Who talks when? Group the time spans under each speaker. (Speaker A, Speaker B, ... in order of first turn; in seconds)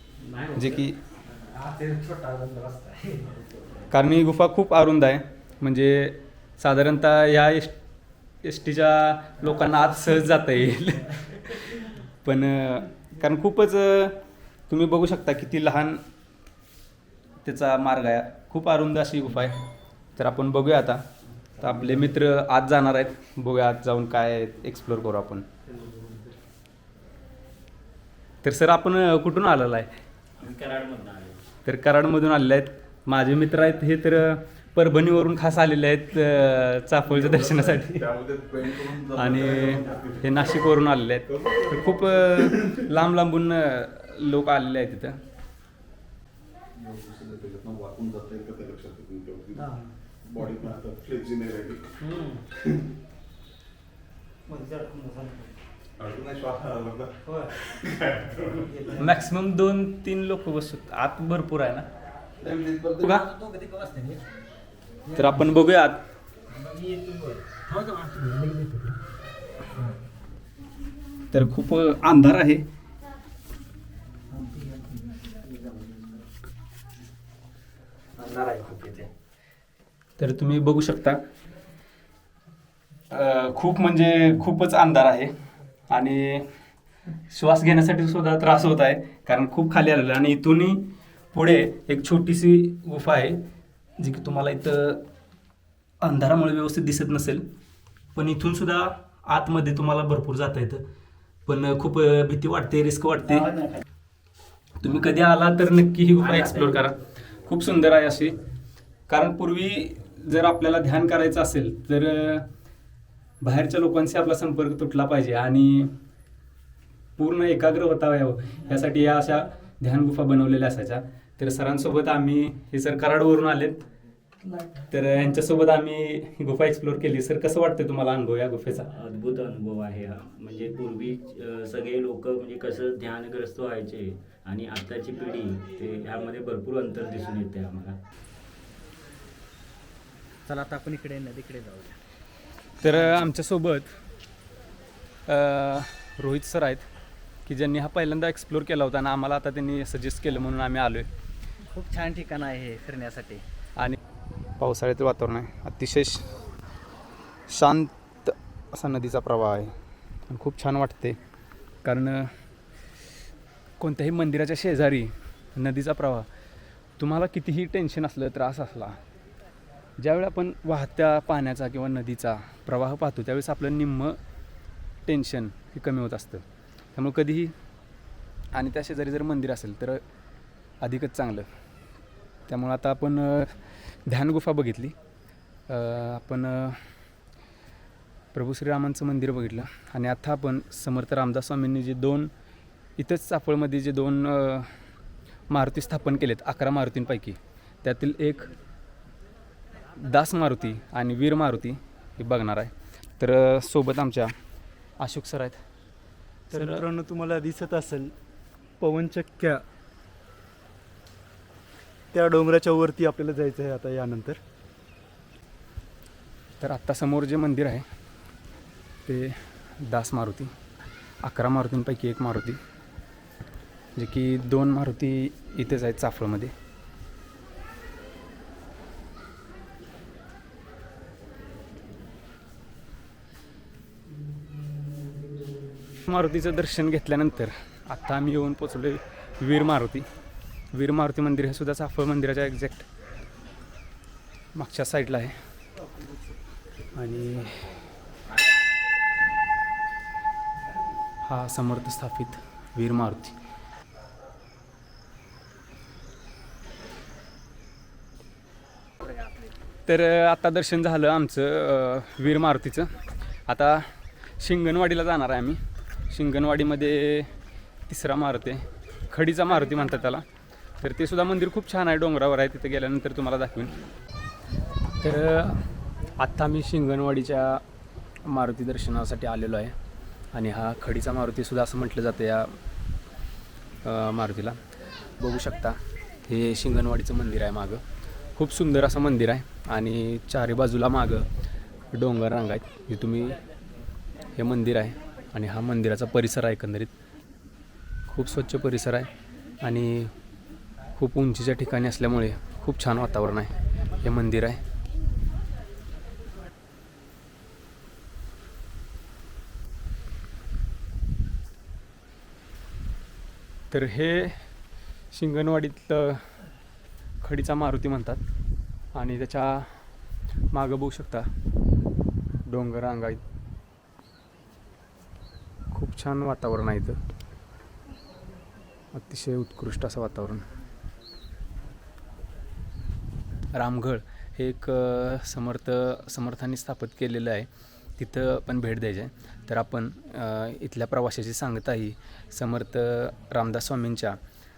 Speaker A: 0.2-3.5, 49.6-49.9, 52.0-52.4, 54.5-55.6, 57.2-57.6, 58.4-59.3, 63.0-64.2, 65.1-65.5, 66.5-68.9, 74.3-76.0, 78.2-79.1, 140.5-142.0, 151.7-153.4
Speaker B: 0.5-1.0, 3.9-7.8, 8.4-14.2, 14.7-16.0, 17.4-19.6, 20.2-21.0, 21.6-25.5, 28.4-29.9, 31.6-38.1, 38.8-45.2, 59.0-61.9, 63.0-63.3, 65.1-66.0, 71.3-72.7, 80.2-81.2, 83.1-85.3, 85.9-86.5, 87.3-93.4, 94.0-95.0, 96.0-97.5, 98.1-100.8, 101.5-103.7, 104.8-108.4, 109.1-112.5, 113.4-115.9, 117.2-123.8, 124.9-128.9, 142.8-143.9, 145.3-146.8, 147.4-151.1, 154.6-156.4, 157.5-159.7, 160.3-161.2, 161.8-162.3, 163.8-166.3, 167.0-169.0, 170.0-174.2, 175.1-176.4, 176.9-177.5, 178.5-180.0, 180.8-181.5, 182.5-184.9, 185.7-186.8, 188.3-192.3, 193.0-194.7, 195.5-198.5, 199.9-204.3, 205.0-205.6, 206.5-206.8, 216.6-217.8, 219.1-220.5, 221.2-222.6, 223.9-226.5, 236.0-240.0, 240.7-242.8, 244.5-245.3, 246.9-247.7, 251.2-253.3, 259.9-262.9, 263.5-263.9, 264.4-265.6, 266.1-267.3, 267.9-270.2, 270.8-273.7, 275.0-275.7, 276.2-277.6, 278.2-279.7, 280.3-282.5, 283.8-284.6, 285.2-287.8, 288.4-291.3, 291.9-293.4, 294.4-296.9, 298.1-299.1, 299.6-300.1, 301.0-304.6, 313.7-314.4, 315.1-316.2, 317.2-318.2, 318.9-319.7, 320.5-321.3, 322.4-323.2, 325.7-327.0, 328.9-330.4, 333.5-344.2
Speaker C: 25.8-26.1, 206.5-208.1, 208.8-209.6, 212.1-214.4
Speaker D: 30.4-31.4, 128.9-138.0
Speaker E: 37.1-40.1, 41.4-42.8, 46.8-49.7, 50.3-51.9, 56.0-58.5, 62.4-63.0